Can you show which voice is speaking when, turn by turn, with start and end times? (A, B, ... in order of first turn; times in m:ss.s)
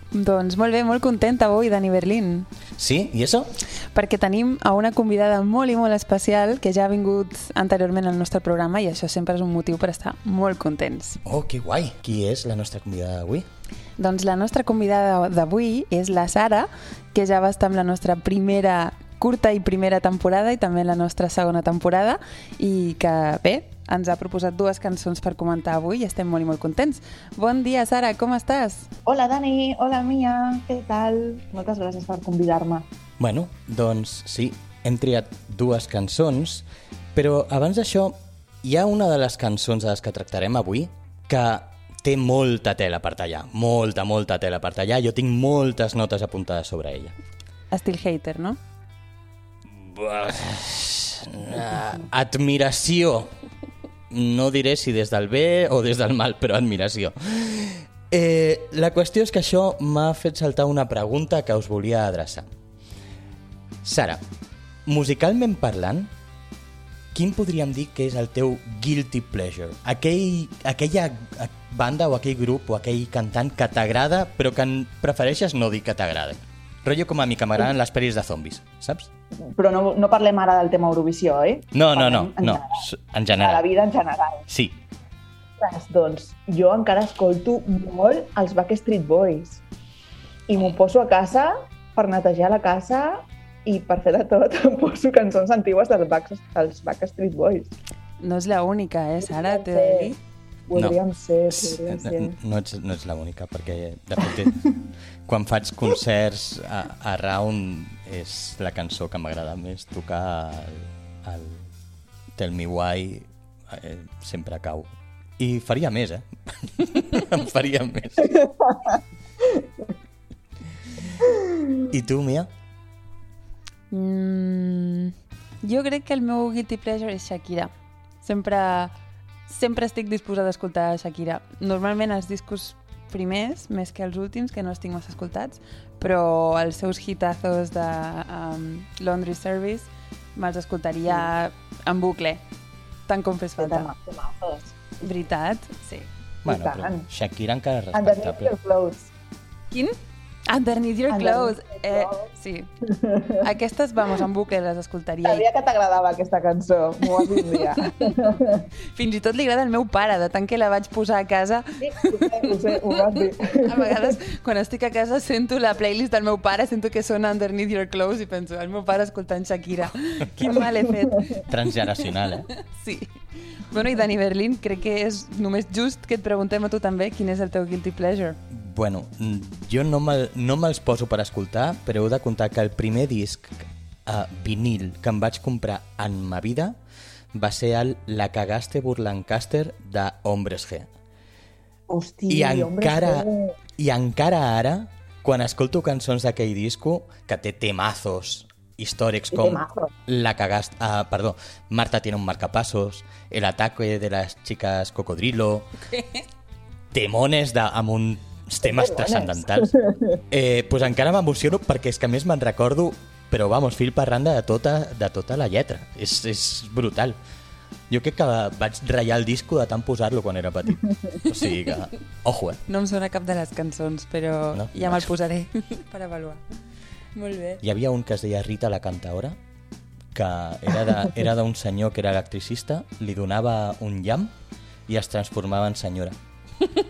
0:00.1-0:02.5 A
0:02.8-0:03.5 B
0:03.9-0:11.2 A
0:11.2-0:13.5 B
0:14.0-0:28.9 A
0:29.1-0:32.9 C
0:33.2-0:47.2 B
0:47.7-0:48.6 A
0:49.7-0:53.3 B
0:54.1-1:02.5 B
1:03.8-1:04.2 B
1:04.9-1:06.1 B
1:07.1-1:19.1 B
1:19.5-1:22.8 C
1:21.7-1:23.6 B
1:23.4-1:24.4 C
1:24.5-1:24.8 B
1:25.6-1:29.6 C
1:30.5-1:37.7 C
1:38.2-1:40.2 A
1:39.3-1:40.1 C
1:40.7-1:42.4 C
1:41.5-1:44.6 B
1:45.3-1:51.7 B
1:52.4-1:58.4 B
1:58.3-1:59.6 C
2:01.9-2:02.5 B
2:03.9-2:07.7 A
2:08.2-2:08.9 A
2:09.5-2:22.4 A
2:23.1-2:23.9 A
2:23.6-2:24.8 C
2:25.0-2:26.1 A
2:26.4-2:28.6 B
2:26.4-2:27.1 C
2:27.9-2:29.1 C
2:29.7-2:30.0 A
2:30.5-2:32.7 A
2:31.1-2:32.3 C
2:32.9-2:33.4 C
2:33.4-2:35.4 A
2:35.2-2:38.7 C
2:37.1-2:38.4 A
2:38.9-2:51.4 A
2:41.8-2:44.2 C
2:50.4-2:50.6 B
2:51.3-2:52.5 B
2:52.6-2:58.4 A
2:58.5-3:06.8 B
3:07.3-3:10.9 B
3:11.9-3:13.6 C
3:12.3-3:25.7 B
3:19.3-3:19.9 C
3:26.9-3:29.7 B
3:28.6-3:30.2 C
3:30.3-3:37.2 B
3:37.9-3:42.6 B
3:42.7-3:46.4 A
3:44.5-3:45.1 B
3:47.2-3:47.6 A
3:47.6-3:49.4 B
3:50.1-3:54.3 B
3:54.9-3:56.2 B